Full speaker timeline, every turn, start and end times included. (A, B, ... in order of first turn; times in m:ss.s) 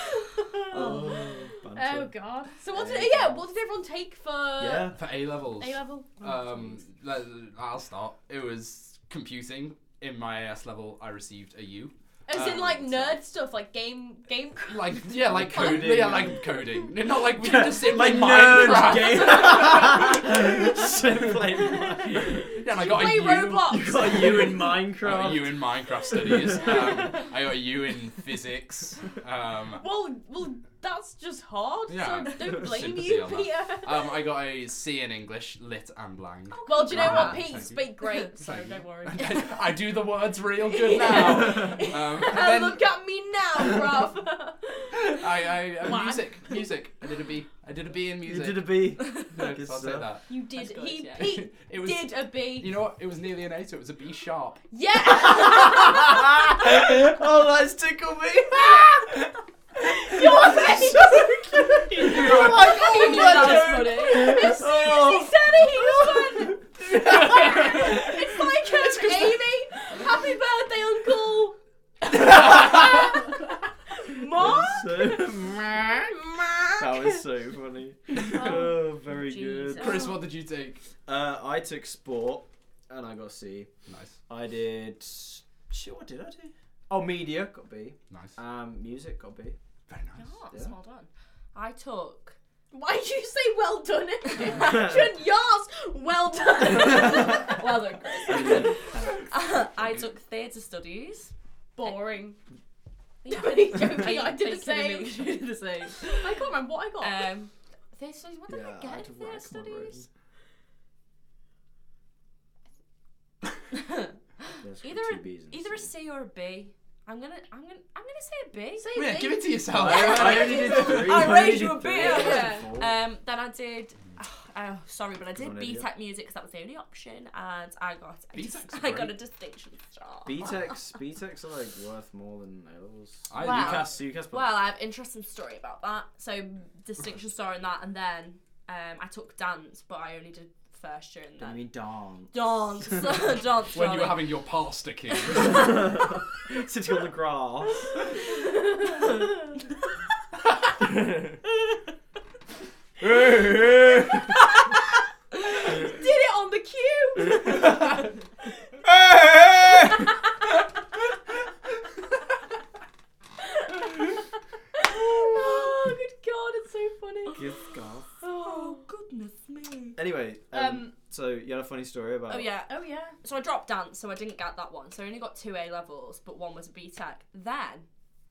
0:00.2-0:04.9 A
0:00.6-0:03.4 B
0:04.6-0:05.0 B
0:04.9-0:13.2 C
0:05.6-0:06.8 A
0:12.3-0:15.9 A
0:14.7-0:21.0 C
0:15.3-0:16.7 B
0:17.3-0:22.6 B
0:18.5-0:20.7 A
0:21.7-0:24.8 A
0:22.4-0:24.4 C
0:23.6-0:27.1 B
0:25.0-0:29.8 C
0:26.6-0:27.2 A
0:29.8-0:34.2 A
0:31.9-0:42.8 C
0:36.6-0:37.4 D
0:36.6-0:39.6 A
0:40.6-0:45.3 A
0:45.0-0:50.2 C
0:45.8-0:46.6 A
0:48.2-0:50.1 B
0:49.0-0:49.3 D
0:50.3-0:52.7 A
0:50.6-0:51.4 D
0:51.2-0:54.6 C
0:54.7-0:56.5 A
0:55.1-1:09.1 B
0:59.8-1:11.6 A
1:02.1-1:02.8 C
1:02.2-1:04.6 D
1:07.2-1:07.7 C
1:12.1-1:13.4 A
1:12.1-1:13.0 B
1:12.6-1:12.9 C
1:13.9-1:17.2 A
1:14.3-1:16.1 B
1:16.8-1:20.0 B
1:18.2-1:18.6 A
1:18.3-1:20.1 D
1:19.8-1:20.8 C
1:21.1-1:23.7 B
1:23.9-1:24.2 C
1:24.3-1:29.6 B
1:28.1-1:28.4 C
1:29.9-1:30.3 C
1:30.2-1:32.4 D
1:32.7-1:38.8 A
1:34.5-1:35.1 B
1:36.8-1:41.3 D
1:38.3-1:39.3 B
1:41.8-1:42.4 A
1:43.2-1:46.4 D
1:43.2-1:45.3 A
1:46.1-1:47.3 A
1:47.0-1:50.0 D
1:48.5-1:50.1 B
1:53.7-1:54.1 D
1:54.6-1:55.9 B
1:54.8-1:59.0 D
1:58.8-2:01.0 A
1:58.9-2:01.1 C
1:59.7-2:03.0 B
1:59.8-2:10.7 D
2:02.0-2:02.7 A
2:05.4-2:05.9 B
2:08.3-2:09.2 C
2:10.2-2:14.6 B
2:13.3-2:14.0 C
2:13.4-2:21.6 D
2:21.4-2:23.2 B
2:22.3-2:24.4 D
2:23.7-2:25.8 C
2:25.3-2:25.8 D
2:25.4-2:27.9 B
2:28.4-2:29.2 A
2:30.8-2:31.4 B
2:33.0-2:34.3 B
2:34.1-2:34.4 A
2:35.4-2:38.0 A
2:38.8-2:40.1 B
2:43.4-2:44.2 A
2:44.7-2:47.5 A
2:47.3-2:48.1 B
2:48.2-2:48.8 A
2:48.3-2:50.0 D
2:50.0-2:52.5 B
2:50.5-2:50.9 A
2:52.3-2:52.7 D
2:52.7-2:53.2 A
2:53.2-2:57.9 D